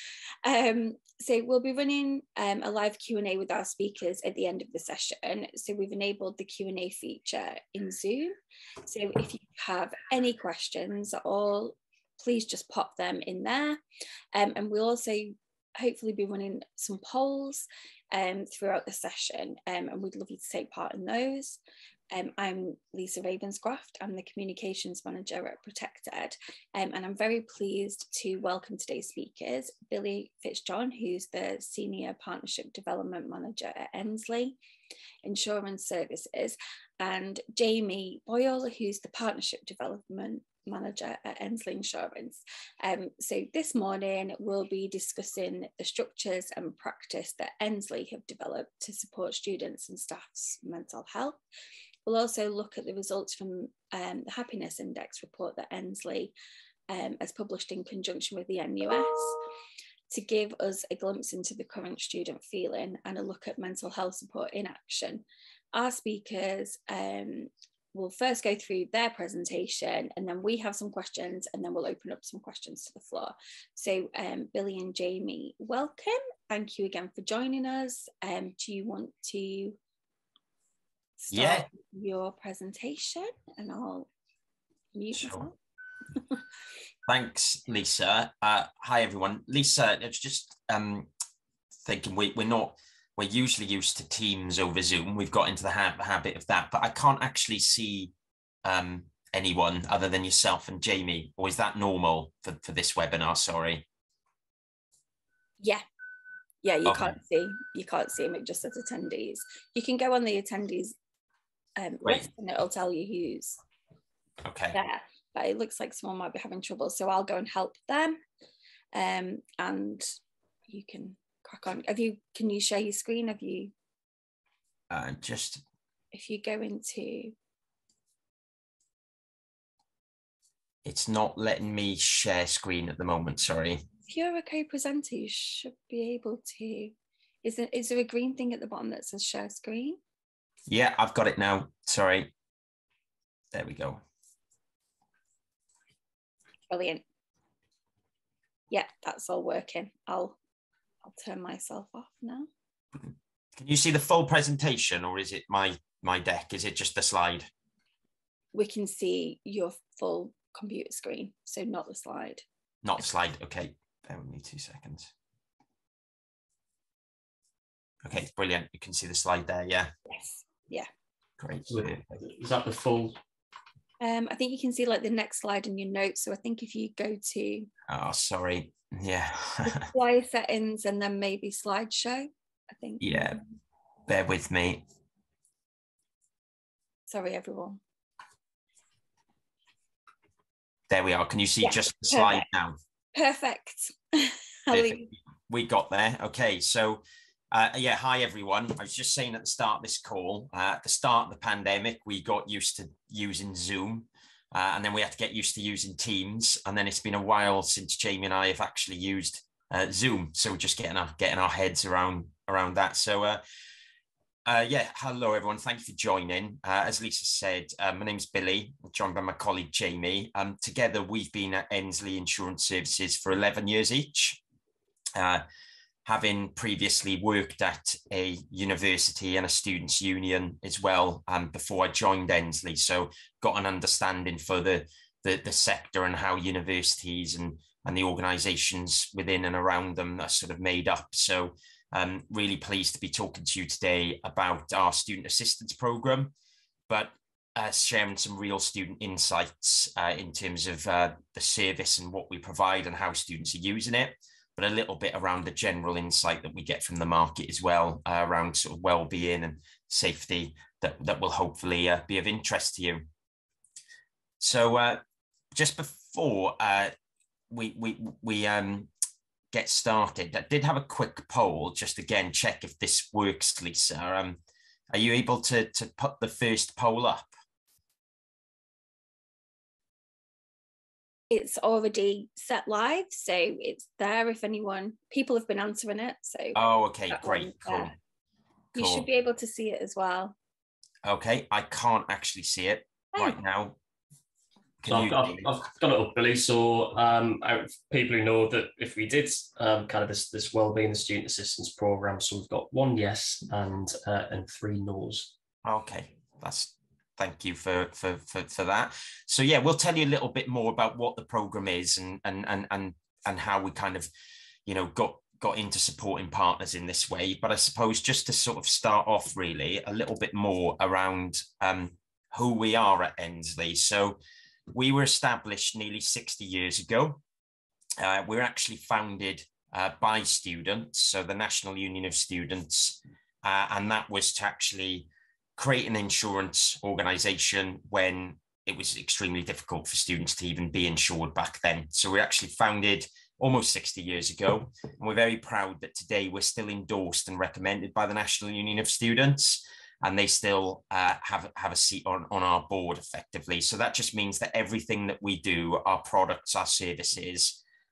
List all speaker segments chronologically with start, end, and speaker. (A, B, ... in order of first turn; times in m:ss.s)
0:00.4-0:08.4 A
0:08.9-0:13.8 A
0:14.3-0:21.6 A
0:22.1-0:34.6 A
0:35.2-0:51.4 A
0:52.1-0:56.3 A
0:56.9-0:59.4 A
1:00.1-1:19.8 A
1:21.2-1:24.1 A
1:21.3-1:21.7 B
1:24.9-1:25.6 A
1:25.2-1:25.5 B
1:27.1-1:31.1 B
1:31.8-1:38.1 B
1:38.6-1:43.9 B
1:46.6-1:51.0 A
1:46.8-1:47.2 B
1:51.8-1:53.6 A
1:54.4-1:54.8 B
1:54.7-1:58.2 A
1:58.9-2:00.2 A
2:00.7-2:03.7 A
2:04.9-2:05.6 B
2:06.1-2:07.4 A
2:10.8-2:13.8 B
2:14.1-2:20.0 A
2:20.7-2:22.3 B
2:23.5-2:24.0 B
2:26.7-2:27.0 A
2:28.7-2:30.4 A
2:31.0-2:32.5 A
2:33.6-2:37.5 B
2:38.5-2:42.4 A
2:42.8-2:45.1 B
2:48.0-2:49.9 B
2:50.1-2:50.9 A
2:51.4-2:52.0 B
2:51.7-2:53.2 C
2:54.0-2:57.7 A
2:57.9-2:59.9 B
2:59.6-3:03.5 A
3:03.0-3:03.4 B
3:04.1-3:04.8 B
3:07.1-3:07.8 A
3:10.9-3:12.8 B
3:11.6-3:12.4 A
3:13.1-3:15.1 A
3:14.7-3:17.0 B
3:17.5-3:33.4 B
3:34.5-3:44.4 B
3:45.2-3:45.4 B
3:46.0-4:06.3 B
4:06.9-4:23.1 B
4:24.4-4:25.0 B
4:25.5-4:26.9 B
4:27.5-4:28.9 B
4:29.5-4:34.4 B
4:34.9-4:37.3 B
4:41.3-4:46.6 A
4:46.6-4:47.9 B
4:47.1-4:47.9 A
4:48.8-4:49.1 B
4:48.8-4:50.4 A
4:51.0-4:53.8 B
4:54.8-4:55.5 B
4:54.9-5:05.3 C
5:05.6-5:14.1 B
5:14.7-5:24.2 B
5:24.7-5:27.2 B
5:28.0-5:57.6 B